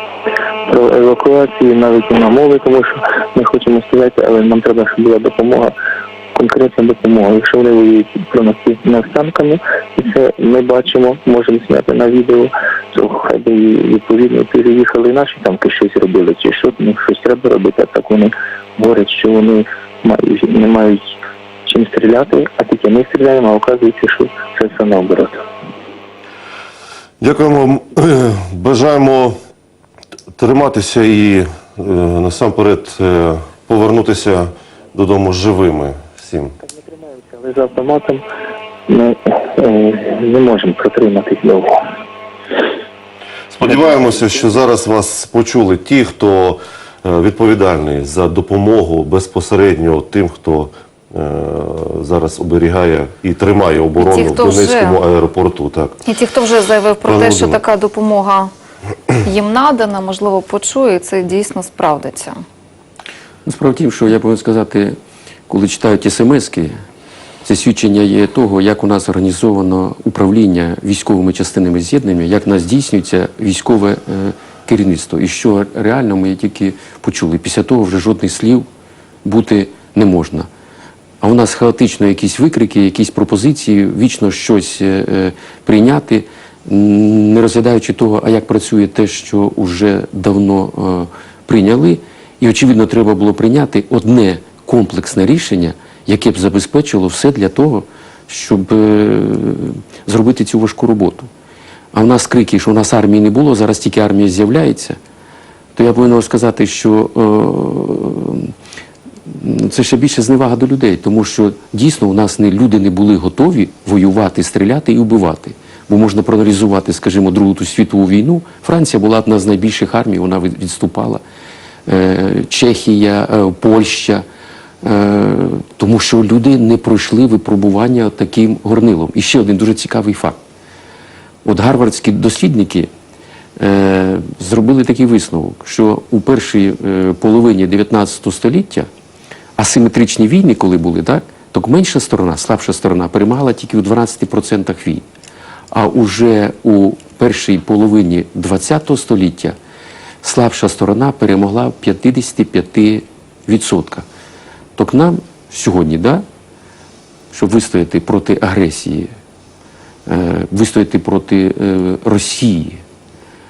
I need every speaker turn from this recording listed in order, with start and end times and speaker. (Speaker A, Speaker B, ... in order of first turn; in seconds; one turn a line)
Speaker A: 0.7-5.7
Speaker A: 6.3-25.4
Speaker B: 27.2-29.4
Speaker B: 30.4-36.5
Speaker A: 36.9-38.2
Speaker A: 38.9-41.8
Speaker B: 43.5-56.0
Speaker C: 54.0-55.0
Speaker C: 56.0-58.5
Speaker B: 57.0-57.6
Speaker C: 59.2-62.4
Speaker D: 63.5-65.0
Speaker D: 65.5-66.7
Speaker D: 67.4-78.7
Speaker D: 79.2-80.5
Speaker D: 81.2-101.3
Speaker D: 101.9-105.0
Speaker D: 105.8-108.5
Speaker D: 109.3-121.2
Speaker D: 121.8-124.2
Speaker D: 124.8-130.4
Speaker D: 131.4-132.9
Speaker D: 133.6-138.9
Speaker D: 139.6-145.1
Speaker D: 145.7-149.6
Speaker D: 150.2-154.1
Speaker D: 154.8-156.2
Speaker D: 157.3-159.1
Speaker D: 160.1-162.8